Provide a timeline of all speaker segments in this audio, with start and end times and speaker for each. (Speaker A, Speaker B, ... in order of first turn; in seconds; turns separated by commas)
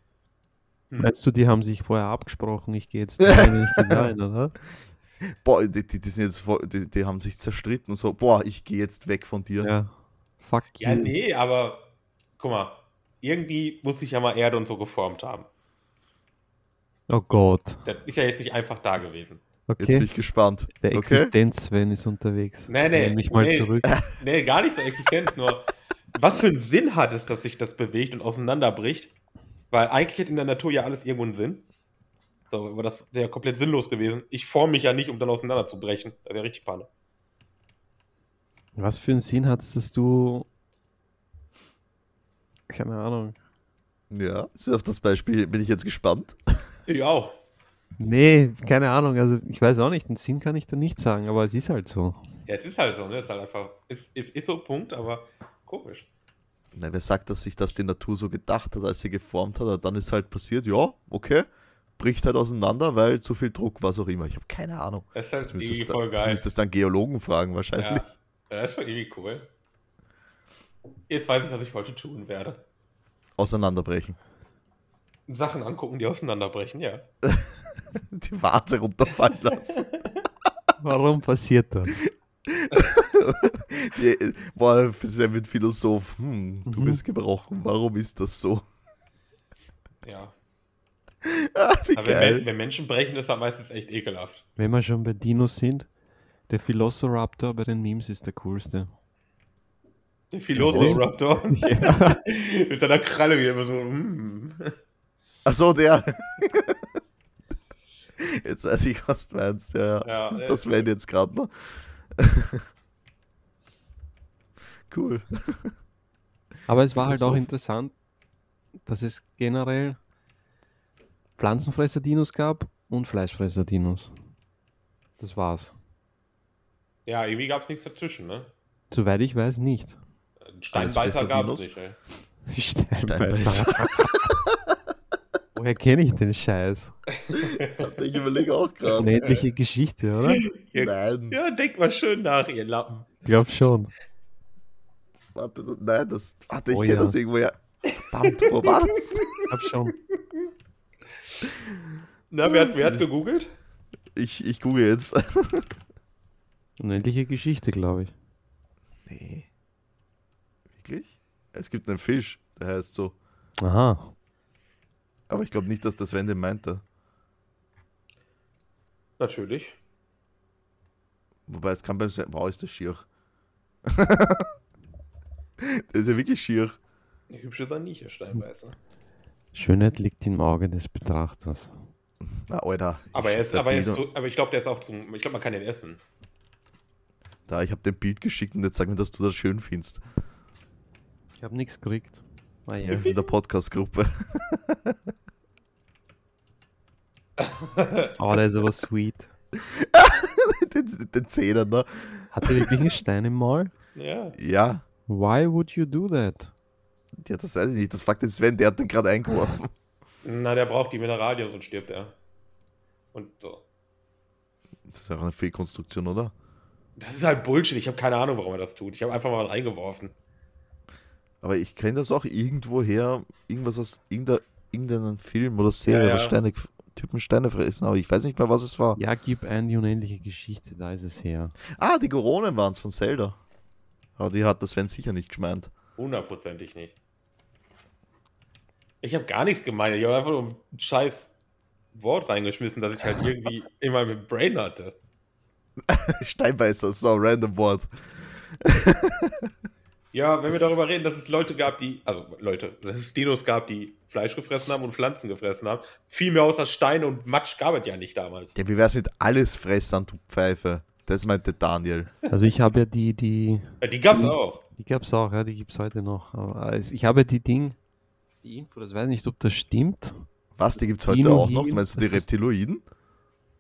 Speaker A: 1.0-4.6, Speaker B: 3.2-4.1, Speaker B: 5.4-9.7, Speaker A: 9.6-11.1, Speaker C: 10.8-15.5, Speaker A: 17.1-17.9, Speaker C: 17.9-19.4, Speaker A: 19.7-20.1, Speaker B: 19.8-21.3, Speaker A: 20.8-23.9, Speaker C: 22.7-29.1, Speaker C: 29.7-31.6, Speaker C: 32.5-36.9, Speaker A: 38.8-40.5, Speaker A: 42.7-43.4, Speaker B: 44.1-46.4, Speaker C: 46.9-47.4, Speaker A: 48.0-52.2, Speaker C: 52.5-56.1, Speaker B: 56.7-61.5, Speaker B: 62.0-68.1, Speaker C: 65.1-66.5, Speaker C: 67.8-69.5, Speaker C: 71.1-72.6, Speaker B: 73.4-74.2, Speaker C: 75.3-77.0, Speaker B: 77.2-79.9, Speaker A: 80.8-82.0, Speaker B: 82.5-88.6, Speaker A: 86.7-87.0, Speaker C: 90.0-90.3, Speaker B: 91.2-92.5, Speaker C: 92.0-94.4, Speaker A: 94.6-95.9, Speaker A: 96.5-98.9, Speaker C: 100.3-104.7, Speaker A: 100.6-102.2, Speaker B: 100.6-101.0, Speaker B: 105.5-107.0, Speaker B: 108.2-112.6, Speaker C: 110.0-110.9, Speaker B: 114.9-115.7, Speaker A: 116.7-117.9, Speaker B: 117.0-117.5, Speaker A: 118.9-120.0, Speaker A: 121.4-124.1, Speaker A: 125.2-125.7, Speaker C: 127.1-128.5, Speaker A: 128.9-130.0, Speaker C: 130.4-132.0, Speaker B: 130.7-131.7, Speaker A: 132.5-134.3, Speaker B: 133.1-134.5, Speaker A: 135.6-137.0, Speaker C: 137.2-137.9, Speaker B: 137.3-139.1, Speaker C: 138.8-139.4, Speaker A: 139.0-140.5, Speaker C: 140.3-143.2, Speaker B: 140.8-141.4, Speaker A: 143.2-143.9, Speaker B: 145.3-149.3, Speaker A: 146.7-147.2, Speaker C: 148.2-149.5, Speaker A: 149.4-149.9, Speaker C: 150.2-150.5, Speaker C: 152.3-153.5, Speaker B: 152.4-153.1, Speaker B: 154.2-155.7, Speaker A: 156.8-158.1, Speaker B: 159.1-159.5, Speaker B: 160.7-163.2, Speaker A: 163.6-164.1, Speaker B: 165.3-166.8, Speaker C: 169.2-169.8, Speaker B: 171.5-173.1, Speaker B: 173.9-174.5, Speaker B: 175.6-176.8, Speaker C: 177.3-178.8, Speaker A: 179.5-181.7, Speaker B: 182.5-184.0, Speaker C: 183.1-186.0, Speaker B: 187.5-190.0, Speaker A: 191.4-193.1, Speaker B: 192.8-195.0, Speaker C: 197.4-198.2, Speaker A: 198.2-199.3, Speaker B: 199.6-202.8, Speaker A: 202.3-203.7, Speaker C: 204.0-204.4, Speaker B: 204.4-204.8, Speaker A: 205.1-206.5, Speaker B: 207.2-209.7, Speaker C: 210.2-212.2, Speaker C: 213.1-213.6, Speaker B: 214.9-216.3, Speaker C: 217.0-220.1, Speaker B: 221.4-229.0, Speaker C: 225.9-226.4, Speaker A: 229.0-231.6, Speaker B: 231.7-233.4, Speaker B: 234.2-235.7, Speaker C: 236.0-237.0, Speaker C: 239.0-241.3, Speaker C: 241.9-245.0, Speaker B: 245.9-247.9, Speaker B: 248.6-249.5, Speaker C: 250.1-258.6, Speaker B: 258.6-262.1, Speaker A: 262.3-267.8, Speaker C: 263.8-264.6, Speaker A: 268.4-270.2, Speaker B: 270.6-272.8, Speaker A: 270.9-272.3